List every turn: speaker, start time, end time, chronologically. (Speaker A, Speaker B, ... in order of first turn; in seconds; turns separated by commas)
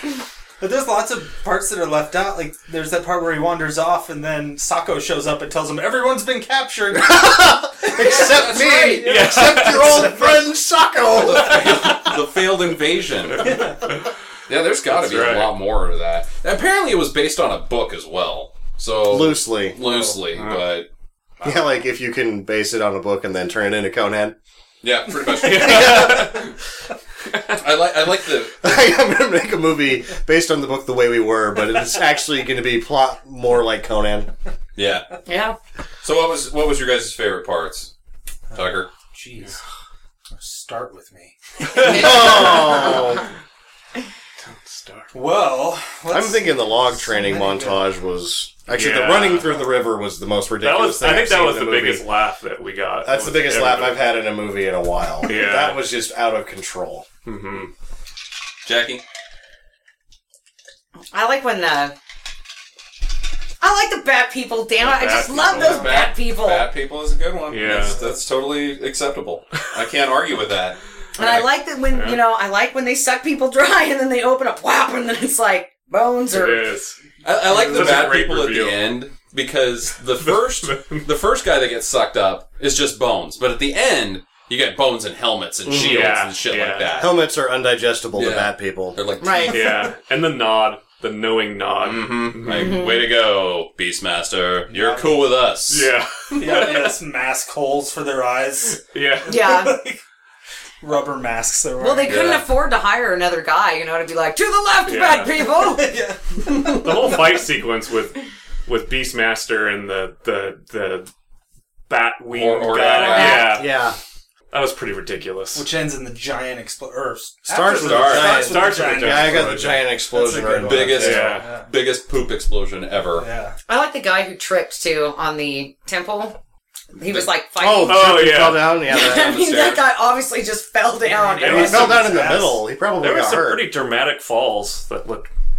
Speaker A: 0.6-8.4, Speaker B: 6.9-12.1, Speaker C: 7.9-9.1, Speaker D: 9.0-10.3, Speaker A: 9.0-10.4, Speaker C: 11.1-13.6, Speaker A: 13.4-14.0, Speaker C: 14.5-20.9, Speaker D: 14.9-15.6, Speaker B: 19.1-19.8, Speaker D: 20.4-20.6, Speaker C: 21.4-21.7, Speaker B: 21.4-24.3, Speaker C: 24.8-26.4, Speaker D: 25.4-26.5, Speaker B: 25.4-26.5, Speaker D: 27.3-27.6, Speaker C: 27.5-28.8, Speaker B: 28.6-34.3, Speaker C: 34.7-35.1, Speaker E: 35.2-35.6, Speaker C: 36.0-37.9, Speaker A: 38.5-39.5, Speaker C: 38.5-38.9, Speaker A: 40.3-43.1, Speaker B: 41.7-43.2, Speaker D: 41.9-42.9, Speaker E: 42.2-42.8, Speaker D: 44.4-45.1, Speaker A: 45.1-47.8, Speaker B: 46.1-52.0, Speaker D: 48.7-49.5, Speaker D: 50.6-54.0, Speaker B: 53.0-57.0, Speaker D: 55.2-55.8, Speaker D: 57.2-57.7, Speaker C: 58.6-59.0, Speaker E: 61.1-61.9, Speaker E: 63.6-66.7, Speaker D: 64.8-66.0, Speaker C: 65.5-71.5, Speaker D: 67.5-68.0, Speaker E: 71.2-76.7, Speaker D: 71.9-72.2, Speaker D: 76.3-78.8, Speaker C: 77.2-87.1, Speaker D: 80.2-81.1, Speaker B: 85.7-86.2, Speaker D: 85.7-87.0, Speaker B: 87.0-89.0, Speaker C: 88.1-89.8, Speaker E: 89.2-89.7, Speaker D: 89.5-92.7, Speaker C: 91.8-95.9, Speaker E: 92.5-93.0, Speaker A: 94.7-95.3, Speaker D: 95.7-97.0, Speaker A: 96.3-100.0, Speaker D: 98.7-99.4, Speaker E: 99.3-99.8, Speaker A: 100.8-102.4, Speaker E: 101.8-105.9, Speaker C: 102.0-102.5, Speaker D: 104.8-105.3, Speaker A: 105.5-107.4, Speaker D: 106.5-111.1, Speaker D: 111.9-113.7, Speaker C: 112.3-113.5, Speaker E: 113.1-113.6, Speaker B: 113.3-114.0, Speaker D: 114.5-115.7, Speaker A: 115.5-121.7, Speaker B: 117.5-121.3, Speaker C: 117.8-118.4, Speaker D: 118.2-119.8, Speaker C: 120.6-123.3, Speaker D: 121.0-121.5, Speaker A: 123.2-123.6, Speaker E: 123.7-126.4, Speaker E: 126.9-131.9, Speaker B: 127.6-129.3, Speaker D: 127.8-128.8, Speaker C: 128.9-129.8, Speaker A: 131.0-132.6, Speaker D: 131.4-132.1, Speaker B: 131.4-133.7, Speaker D: 133.0-135.3